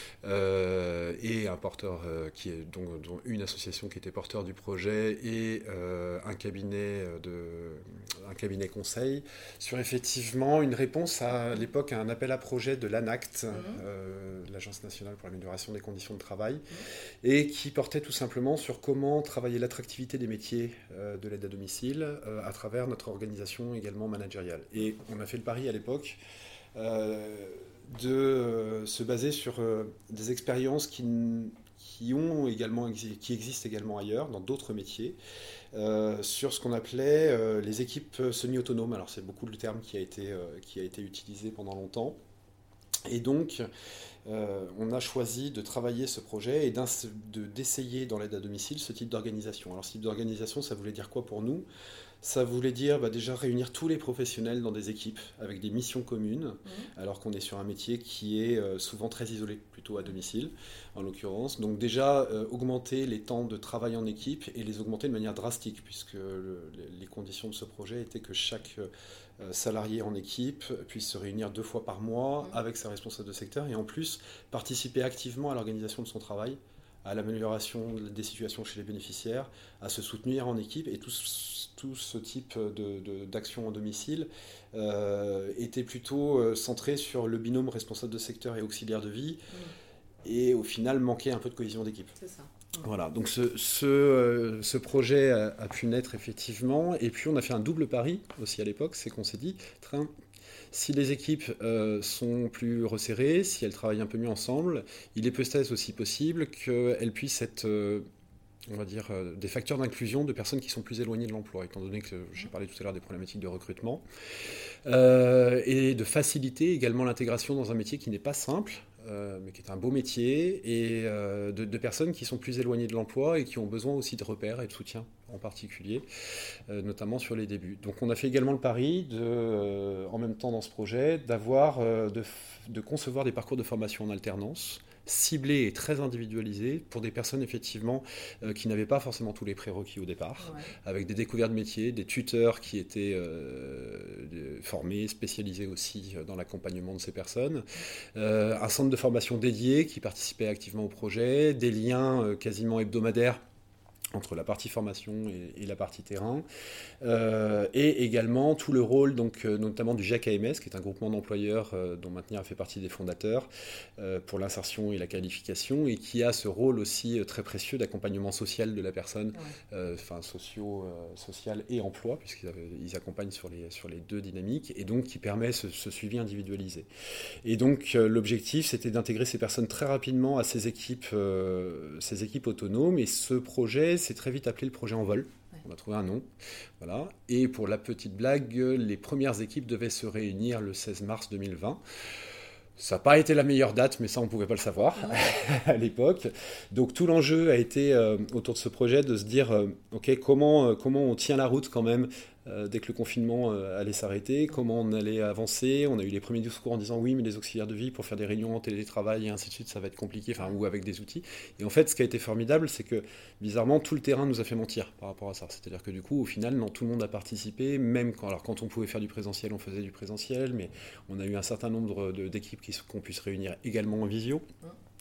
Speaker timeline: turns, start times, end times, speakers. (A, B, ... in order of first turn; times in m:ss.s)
0:00.2-0:16.7 A
0:13.5-0:13.8 B
0:17.2-0:26.2 A
0:26.8-0:35.2 A
0:35.7-0:42.2 A
0:43.1-0:43.7 A
0:44.3-0:51.7 A
0:52.2-1:08.9 A
0:56.6-0:56.9 B
1:09.4-1:29.5 A
1:30.2-1:32.2 A
1:32.2-1:32.9 B
1:32.8-1:40.1 A
1:40.7-1:48.0 A
1:48.7-1:54.0 A
1:54.8-2:06.0 A
2:06.7-2:33.4 A
2:20.4-2:20.7 B
2:34.1-2:36.4 A
2:37.0-2:56.9 A
2:49.3-2:49.6 B
2:57.4-3:06.3 A
3:06.8-3:11.8 A
3:12.8-3:44.4 A